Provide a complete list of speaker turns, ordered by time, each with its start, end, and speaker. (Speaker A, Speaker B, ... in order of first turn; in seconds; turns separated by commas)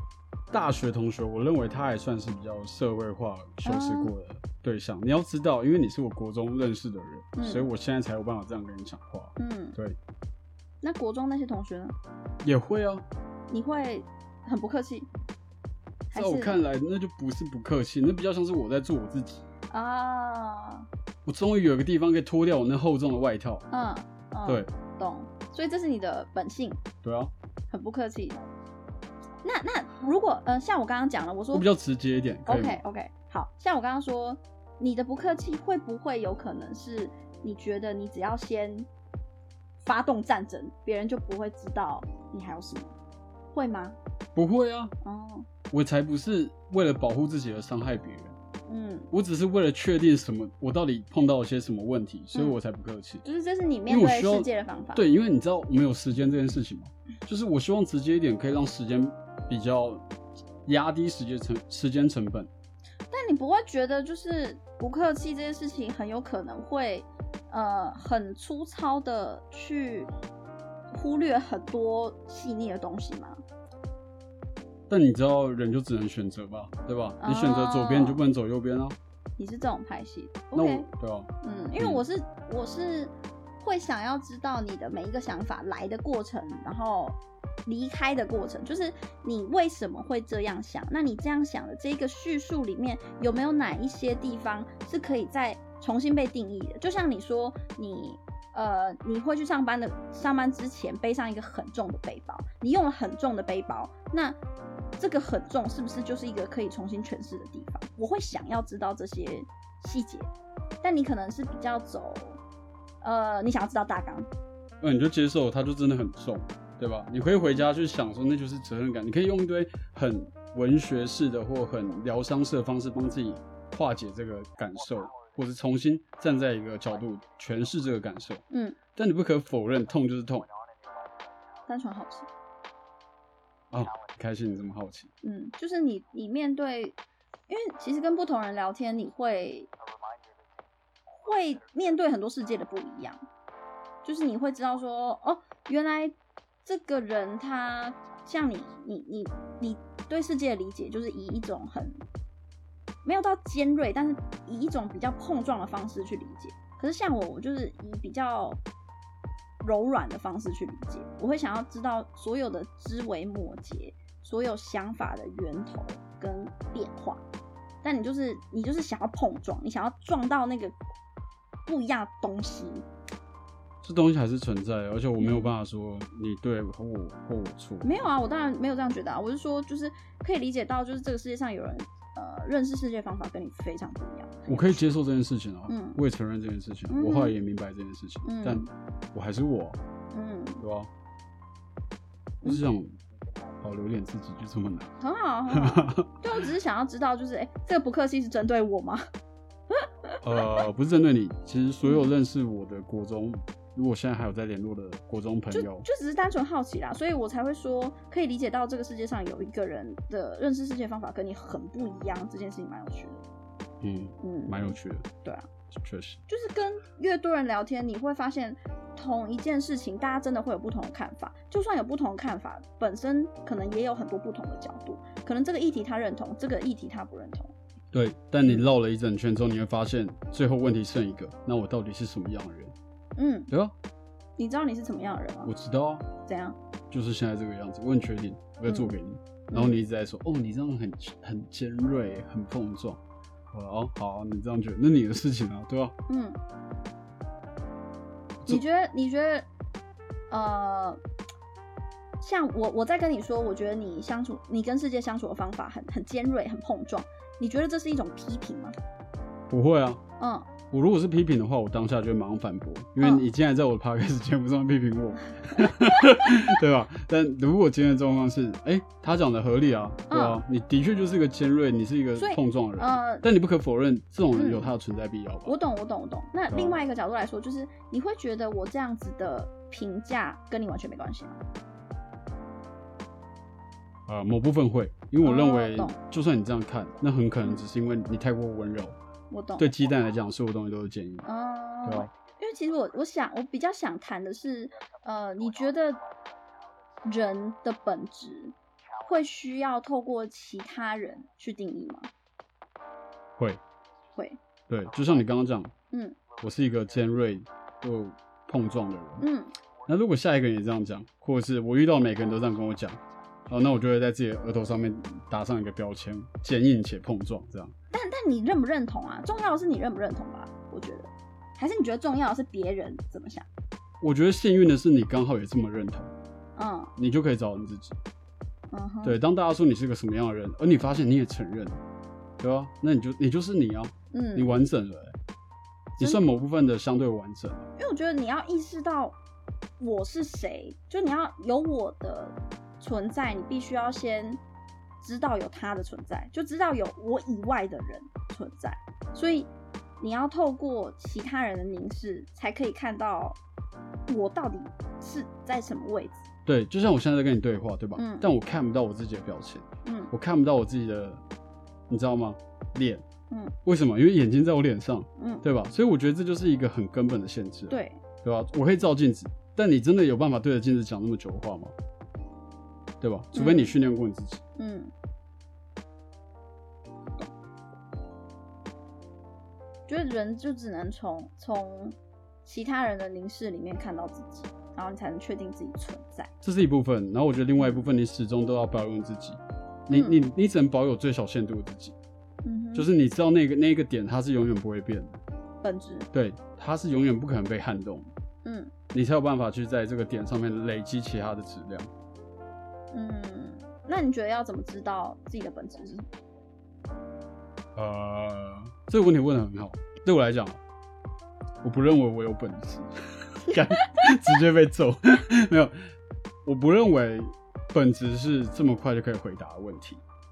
Speaker A: 0.5-10.0, Speaker B: 3.6-4.1, Speaker B: 7.3-7.7, Speaker B: 9.4-9.8, Speaker B: 10.8-11.9, Speaker A: 12.4-13.1, Speaker B: 13.5-15.1, Speaker B: 16.1-16.6, Speaker A: 16.1-19.4, Speaker B: 19.7-20.9, Speaker A: 21.3-23.7, Speaker B: 23.7-26.8, Speaker A: 27.0-27.3, Speaker B: 27.7-28.4, Speaker B: 29.4-31.7, Speaker A: 31.5-32.8, Speaker B: 32.5-38.9, Speaker B: 39.8-42.9, Speaker B: 43.5-44.0, Speaker A: 44.4-44.9, Speaker B: 45.0-45.5, Speaker A: 45.7-48.4, Speaker B: 48.7-49.1, Speaker A: 49.1-53.2, Speaker B: 52.3-52.6, Speaker B: 53.2-55.0, Speaker A: 53.9-60.1, Speaker A: 60.6-62.5, Speaker B: 63.1-70.1, Speaker B: 70.9-73.4, Speaker A: 74.9-79.0, Speaker B: 77.2-78.2, Speaker B: 79.4-80.9, Speaker A: 80.5-82.0, Speaker B: 81.4-104.4, Speaker B: 105.0-110.3, Speaker B: 110.8-112.4, Speaker B: 113.0-114.3, Speaker A: 114.8-128.4, Speaker B: 128.5-128.8, Speaker A: 128.9-130.5, Speaker B: 131.7-132.3, Speaker A: 133.7-135.1, Speaker B: 135.2-137.0, Speaker B: 137.5-139.7, Speaker B: 141.1-143.2, Speaker B: 144.0-152.0, Speaker B: 153.0-158.6, Speaker B: 159.6-167.2, Speaker B: 167.8-170.8, Speaker B: 171.7-172.8, Speaker A: 173.8-178.1, Speaker B: 175.2-175.5, Speaker B: 177.8-184.8, Speaker A: 184.5-189.8, Speaker B: 185.7-186.0, Speaker B: 186.9-187.3, Speaker B: 188.2-188.7, Speaker B: 190.1-190.6, Speaker A: 190.6-190.9, Speaker A: 192.4-192.9, Speaker A: 193.6-194.9, Speaker B: 195.0-199.0, Speaker A: 195.5-196.2, Speaker B: 199.7-200.6, Speaker A: 200.2-205.9, Speaker B: 201.8-202.1, Speaker B: 205.5-213.2, Speaker A: 213.8-215.1, Speaker B: 214.2-215.5, Speaker A: 215.7-216.2, Speaker B: 216.3-227.5, Speaker A: 227.9-232.7, Speaker B: 233.2-233.5, Speaker B: 234.4-235.5, Speaker A: 235.4-236.1, Speaker B: 236.2-236.6, Speaker A: 236.9-243.0, Speaker B: 238.7-238.9, Speaker A: 243.5-245.9, Speaker B: 246.1-246.4, Speaker B: 248.5-249.5, Speaker B: 250.3-251.0, Speaker B: 252.2-258.7, Speaker A: 259.5-260.0, Speaker B: 260.2-260.5, Speaker A: 260.7-275.5, Speaker B: 263.0-263.3, Speaker B: 265.6-266.4, Speaker B: 270.1-270.4, Speaker B: 272.2-273.3, Speaker B: 274.3-274.7, Speaker B: 275.4-281.4, Speaker A: 276.5-276.8, Speaker A: 284.1-289.0, Speaker B: 285.2-286.0, Speaker B: 289.3-289.7, Speaker A: 289.6-291.3, Speaker B: 291.3-296.0, Speaker B: 297.0-302.1, Speaker A: 304.7-305.7, Speaker B: 305.9-306.2, Speaker A: 306.4-309.3, Speaker B: 309.2-309.5, Speaker A: 309.9-317.7, Speaker B: 317.9-323.5, Speaker A: 324.0-326.1, Speaker B: 326.6-326.9, Speaker A: 327.0-327.9, Speaker B: 328.7-329.2, Speaker A: 329.0-331.8, Speaker A: 332.4-335.2, Speaker B: 334.1-334.6, Speaker A: 335.9-337.7, Speaker B: 337.8-339.2, Speaker B: 339.8-344.4, Speaker B: 345.0-353.4, Speaker B: 354.1-356.2, Speaker A: 356.4-361.2, Speaker B: 357.9-358.3, Speaker B: 359.9-360.1, Speaker A: 361.9-363.0, Speaker A: 363.6-371.7, Speaker B: 365.2-365.4, Speaker B: 367.7-368.0, Speaker A: 373.0-374.4, Speaker B: 373.3-373.7, Speaker B: 374.6-374.9, Speaker B: 379.9-386.3, Speaker A: 386.4-391.9, Speaker B: 387.6-387.9, Speaker B: 389.9-390.2, Speaker B: 392.4-392.9, Speaker A: 392.7-395.2, Speaker B: 395.6-396.1, Speaker A: 396.1-398.1, Speaker B: 398.4-398.7, Speaker A: 398.9-401.9, Speaker B: 402.9-406.1, Speaker A: 407.8-410.6, Speaker A: 411.6-415.8, Speaker B: 413.4-414.3, Speaker A: 416.4-420.0